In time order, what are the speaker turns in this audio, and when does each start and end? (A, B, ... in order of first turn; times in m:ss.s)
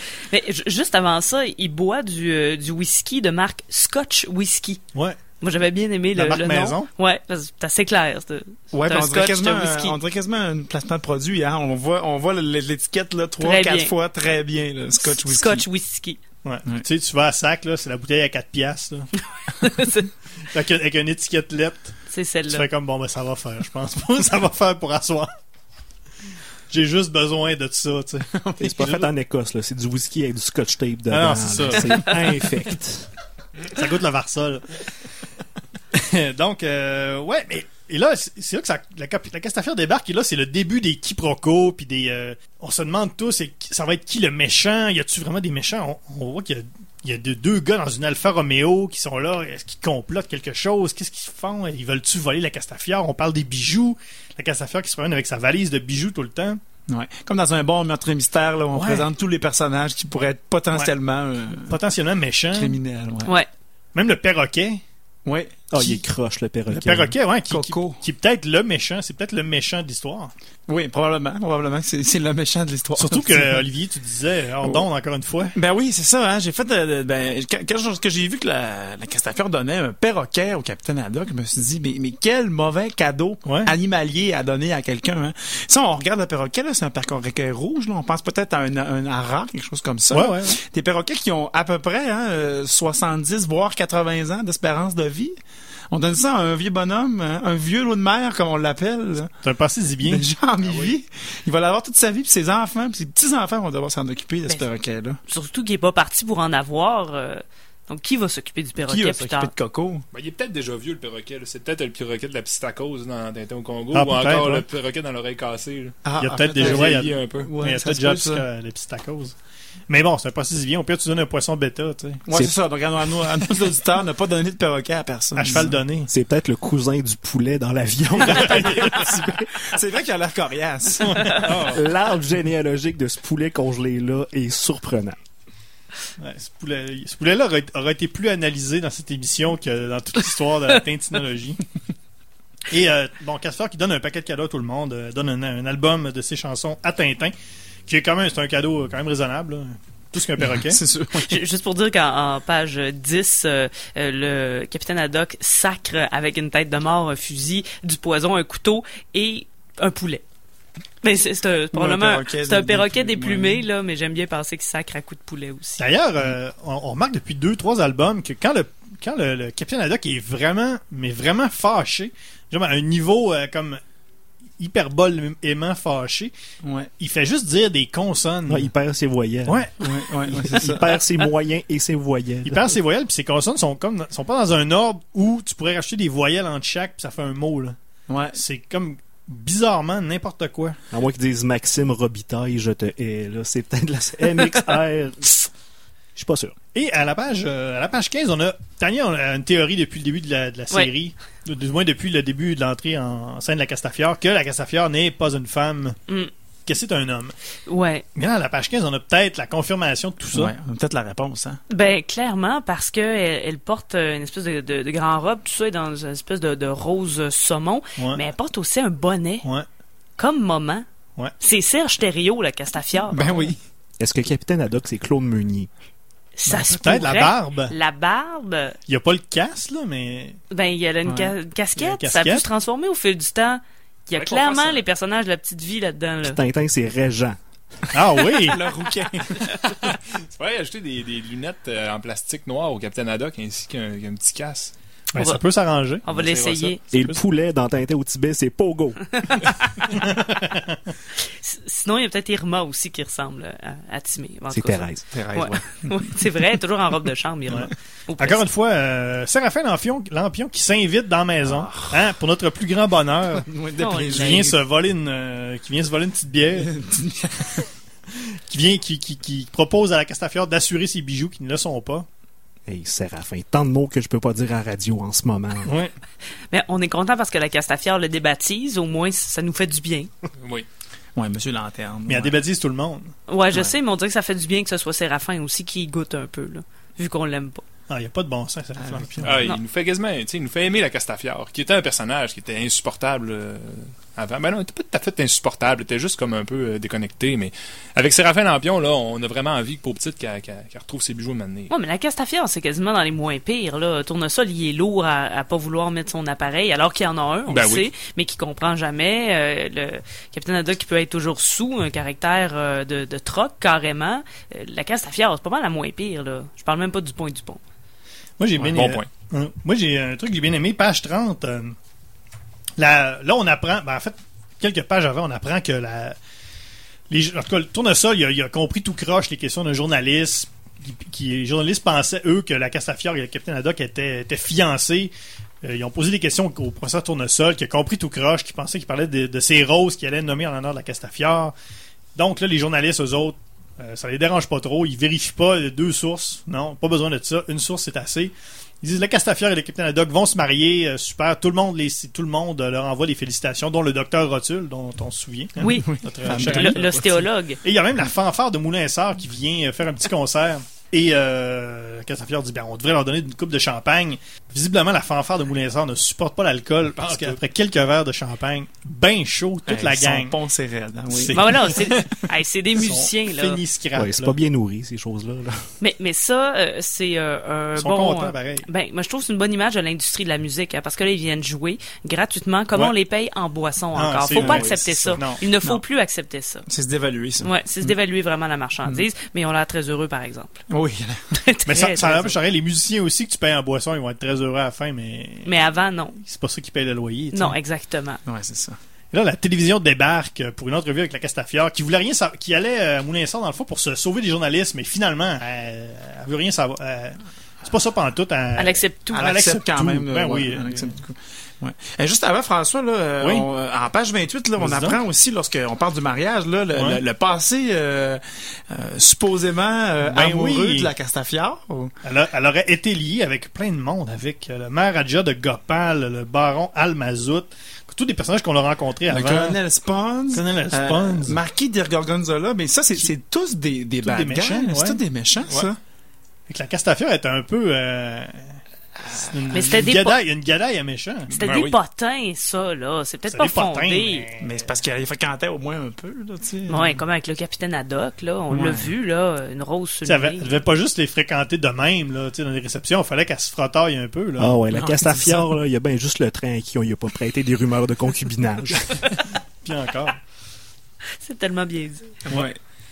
0:00.3-0:04.8 A
0:04.9-0:05.2 B
0:05.4-0:10.0 A
0:06.1-0:06.9 B
0:08.7-0:15.7 C
0:13.4-0:13.9 A
0:15.0-0:16.2 A
0:16.4-0:19.1 B
0:19.5-0:20.1 A
0:20.5-0:22.0 B
0:22.1-0:22.7 A
0:22.5-0:25.3 B
0:26.7-0:29.0 B
0:28.3-0:28.9 C
0:28.6-0:33.1 D
0:31.1-0:32.2 B
0:33.7-0:34.8 B
0:35.9-0:56.6 B
0:56.9-1:01.8 C
0:58.7-0:59.1 B
1:01.7-1:02.8 B
1:02.5-1:03.3 C
1:03.9-1:04.8 B
1:05.2-1:05.7 C
1:05.7-1:07.2 D
1:05.8-1:06.0 B
1:06.7-1:10.3 B
1:07.5-1:08.0 C
1:10.7-1:13.7 C
1:13.0-1:15.6 B
1:15.6-1:35.4 C
1:23.4-1:23.7 B
1:30.1-1:30.6 B
1:35.9-1:39.3 C
1:39.4-1:40.3 B
1:40.0-1:45.2 C
1:40.6-1:41.0 E
1:45.3-1:49.5 A
1:48.8-1:50.0 C
1:50.1-1:56.0 E
1:53.9-1:54.6 B
1:56.0-1:58.5 C
1:56.2-1:59.4 B
1:56.5-1:57.5 E
1:59.9-2:02.2 B
2:02.3-2:05.8 C
2:05.4-2:06.1 B
2:05.6-2:09.5 D
2:08.2-2:09.0 B
2:08.3-2:11.6 C
2:11.0-2:11.8 B
2:11.6-2:15.2 D
2:16.2-2:21.6 B
2:22.7-2:27.3 B
2:27.9-2:30.8 B
2:30.4-2:31.4 C
2:31.1-2:40.2 A
2:41.0-2:45.8 A
2:41.7-2:43.6 C
2:45.8-2:53.8 B
2:54.6-2:56.3 B
2:56.6-2:56.9 C
2:57.0-2:58.7 B
2:58.5-2:59.7 D
2:59.5-2:59.8 B
2:59.8-3:01.0 C
3:00.3-3:02.8 D
3:02.4-3:07.8 B
3:08.1-3:08.4 C
3:08.3-3:10.8 B
3:10.9-3:15.5 D
3:16.2-3:16.6 D
3:16.7-3:26.0 B
3:26.7-3:27.4 B
3:27.7-3:28.0 A
3:28.2-3:30.5 B
3:30.3-3:31.6 C
3:31.7-3:39.5 A
3:38.0-3:38.2 B
3:40.2-3:40.8 A
3:41.4-3:43.5 A
3:43.1-3:43.6 C
3:44.0-3:45.7 D
3:46.4-3:48.8 A
3:46.5-3:47.8 B
3:48.9-3:50.4 B
3:50.5-3:56.4 A
3:51.1-3:51.3 C
3:51.8-3:52.4 B
3:54.1-3:54.8 E
3:56.2-3:57.4 D
3:57.9-3:58.6 B
3:58.4-3:59.6 C
3:59.7-4:04.7 E
4:05.1-4:06.0 B
4:05.2-4:05.4 A
4:06.0-4:06.8 A
4:06.1-4:06.8 E
4:06.9-4:09.2 D
4:09.2-4:10.0 A
4:09.9-4:10.8 B
4:11.2-4:18.4 A
4:14.5-4:15.5 D
4:15.1-4:16.2 C
4:17.5-4:23.5 B
4:21.4-4:22.1 C
4:23.4-4:24.6 C
4:23.8-4:24.5 A
4:24.1-4:26.7 B
4:26.6-4:27.7 C
4:28.1-4:32.1 B
4:32.7-4:35.8 D
4:35.6-4:35.9 B
4:36.5-4:40.1 A
4:40.4-4:40.7 E
4:41.2-4:42.4 C
4:42.1-4:43.1 B
4:43.3-4:47.6 A
4:47.9-4:49.4 B
4:48.8-4:49.3 C
4:49.2-5:01.7 E
5:01.7-5:17.6 A
5:07.5-5:07.9 E
5:18.4-5:21.8 B
5:18.6-5:19.1 E
5:22.8-5:26.2 B
5:27.1-5:35.1 B
5:35.6-5:41.5 B
5:42.2-5:56.9 B
5:55.6-5:57.6 A
5:55.6-5:57.2 C
5:57.6-6:10.4 B
6:07.0-6:07.4 E
6:09.7-6:11.7 C
6:11.1-6:11.8 B
6:11.3-6:13.6 A
6:12.8-6:14.4 B
6:14.0-6:15.7 D
6:15.8-6:26.6 A
6:17.8-6:18.7 B
6:24.0-6:25.4 B
6:24.4-6:25.8 C
6:26.7-6:27.9 C
6:27.4-6:30.6 A
6:30.7-6:31.3 C
6:31.3-6:32.4 A
6:31.7-6:35.5 B
6:35.4-6:36.2 A
6:36.2-6:37.6 B
6:37.3-6:38.2 A
6:38.2-6:38.8 C
6:39.1-6:51.0 B
6:48.6-6:49.3 A
6:49.1-7:01.9 C
6:53.2-6:53.5 B
6:54.6-6:55.0 B
6:56.8-6:57.0 B
7:00.0-7:00.9 B
7:02.0-7:09.6 B
7:09.1-7:15.8 C
7:10.3-7:11.4 B
7:14.0-7:15.0 B
7:16.5-7:18.6 B
7:19.0-7:19.8 C
7:19.1-7:21.3 B
7:19.5-7:20.2 A
7:21.3-7:21.8 E
7:21.4-7:24.3 A
7:23.3-7:24.6 B
7:24.4-7:27.0 C
7:26.7-7:30.6 A
7:28.5-7:28.9 C
7:30.0-7:34.6 B
7:34.4-7:39.1 D
7:34.7-7:35.5 C
7:39.6-7:40.2 B
7:41.2-7:42.1 A
7:42.2-7:42.6 C